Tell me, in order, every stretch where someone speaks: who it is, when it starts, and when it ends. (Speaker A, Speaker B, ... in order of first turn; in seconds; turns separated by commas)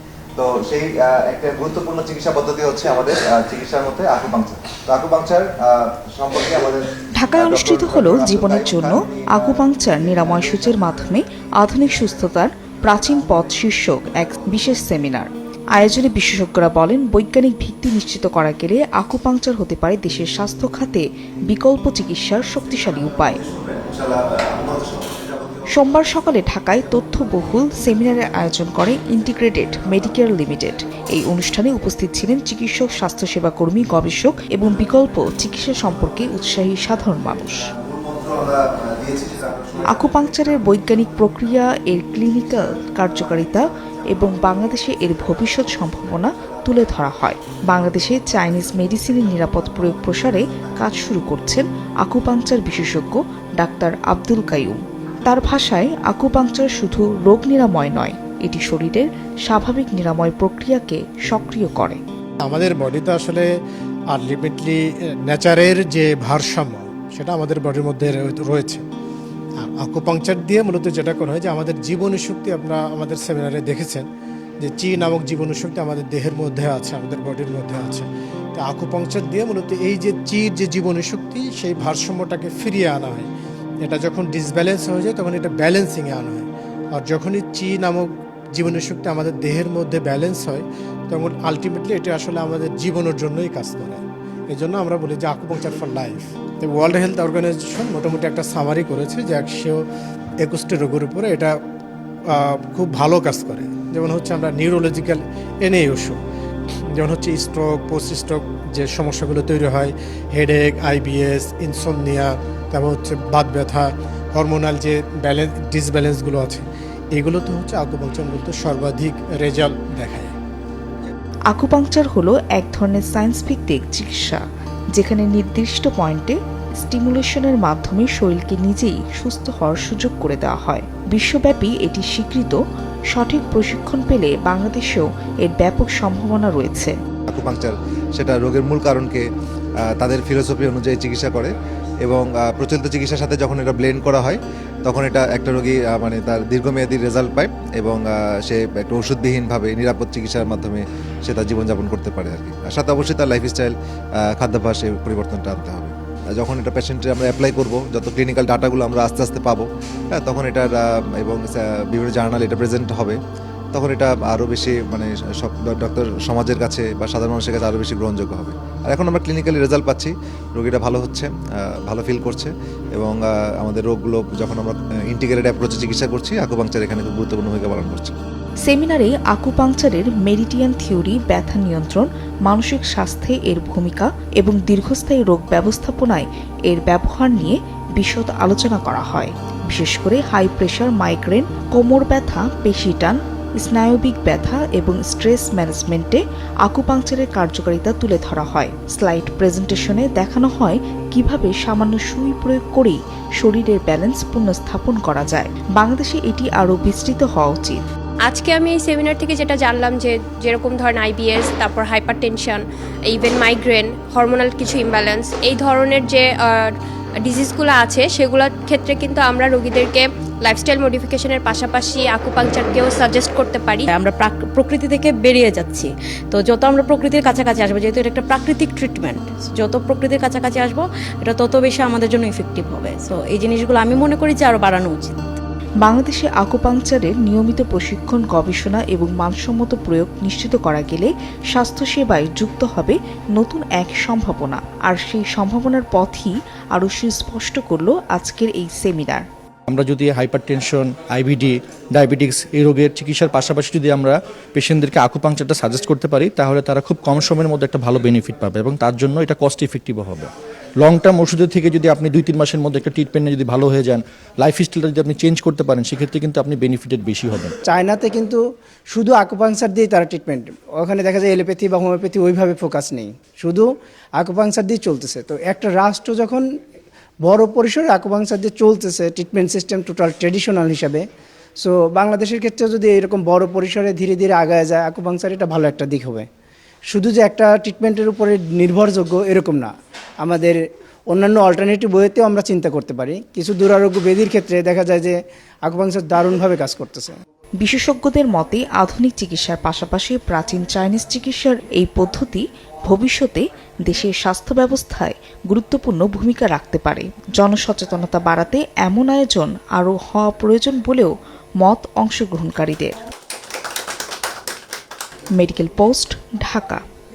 Speaker A: 0.3-10.7, Speaker B: 7.2-23.4, Speaker A: 23.2-25.7, Speaker B: 25.7-37.7, Speaker A: 37.7-40.0, Speaker B: 39.9-62.0, Speaker C: 62.4-63.6, Speaker C: 64.1-68.9, Speaker C: 69.6-74.1, Speaker C: 74.6-83.3, Speaker C: 83.8-99.8, Speaker C: 100.4-101.6, Speaker C: 102.2-106.2, Speaker C: 106.8-120.3, Speaker B: 121.5-124.4, Speaker B: 124.9-132.6, Speaker B: 133.1-136.9, Speaker A: 137.3-139.2, Speaker A: 139.9-141.5, Speaker A: 142.0-163.2, Speaker A: 163.7-178.2, Speaker B: 178.7-207.8, Speaker D: 208.3-216.7, Speaker D: 217.2-223.9, Speaker E: 223.9-235.4, Speaker B: 235.8-249.3, Speaker F: 249.7-267.5, Speaker G: 267.7-276.5, Speaker G: 277.2-281.1, Speaker G: 281.6-286.3, Speaker G: 286.9-297.1, Speaker B: 297.6-312.9, Speaker B: 315.4-316.8